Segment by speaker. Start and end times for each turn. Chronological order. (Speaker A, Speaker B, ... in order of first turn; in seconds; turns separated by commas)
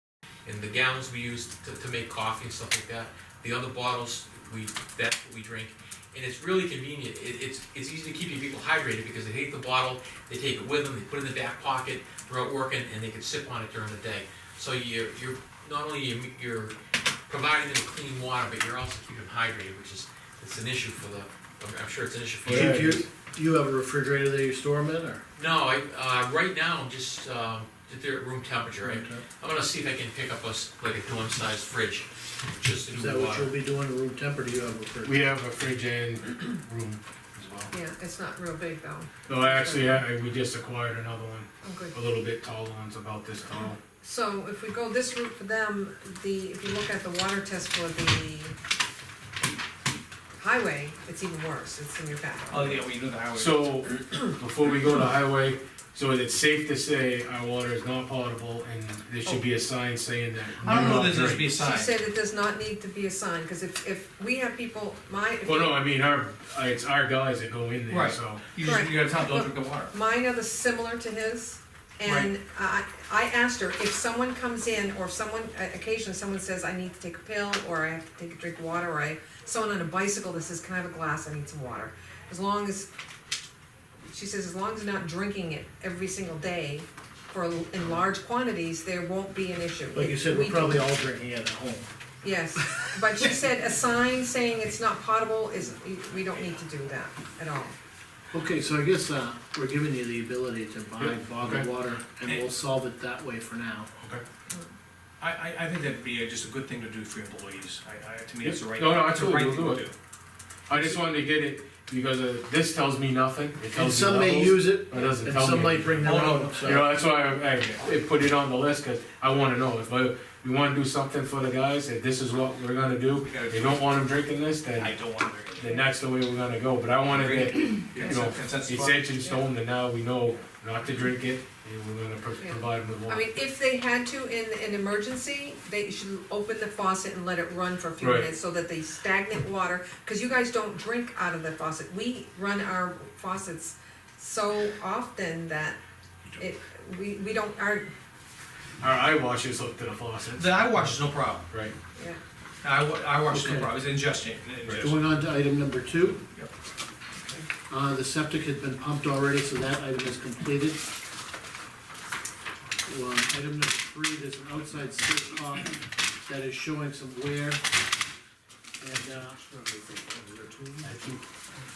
Speaker A: 0.5-16.8, Speaker A: 17.3-22.9, Speaker B: 22.5-23.1, Speaker C: 22.5-25.2, Speaker A: 25.4-33.5, Speaker C: 28.8-29.2, Speaker C: 32.9-35.3, Speaker B: 35.0-37.7, Speaker D: 37.7-40.0, Speaker B: 39.3-43.8, Speaker D: 41.6-42.0, Speaker D: 44.0-48.6, Speaker D: 50.4-52.8, Speaker E: 52.5-53.7, Speaker B: 53.3-61.5, Speaker E: 60.6-62.0, Speaker D: 61.5-65.7, Speaker B: 65.4-68.5, Speaker E: 67.9-69.9, Speaker D: 68.6-82.9, Speaker E: 72.0-72.3, Speaker D: 84.1-90.9, Speaker C: 89.9-91.9, Speaker D: 92.2-97.8, Speaker C: 98.3-103.9, Speaker B: 101.0-101.7, Speaker E: 105.2-109.9, Speaker B: 108.4-109.8, Speaker B: 110.7-133.3, Speaker C: 113.7-116.9, Speaker E: 116.0-117.0, Speaker E: 123.2-124.0, Speaker E: 124.8-125.8, Speaker E: 127.0-129.2, Speaker D: 132.4-145.8, Speaker B: 138.0-138.3, Speaker D: 146.4-147.9, Speaker B: 148.8-150.9, Speaker E: 150.4-151.5, Speaker B: 151.5-151.8, Speaker E: 152.6-155.1, Speaker C: 153.3-153.7, Speaker C: 154.8-156.2, Speaker C: 157.7-160.8, Speaker C: 162.8-167.6, Speaker C: 168.8-170.8, Speaker B: 170.8-171.2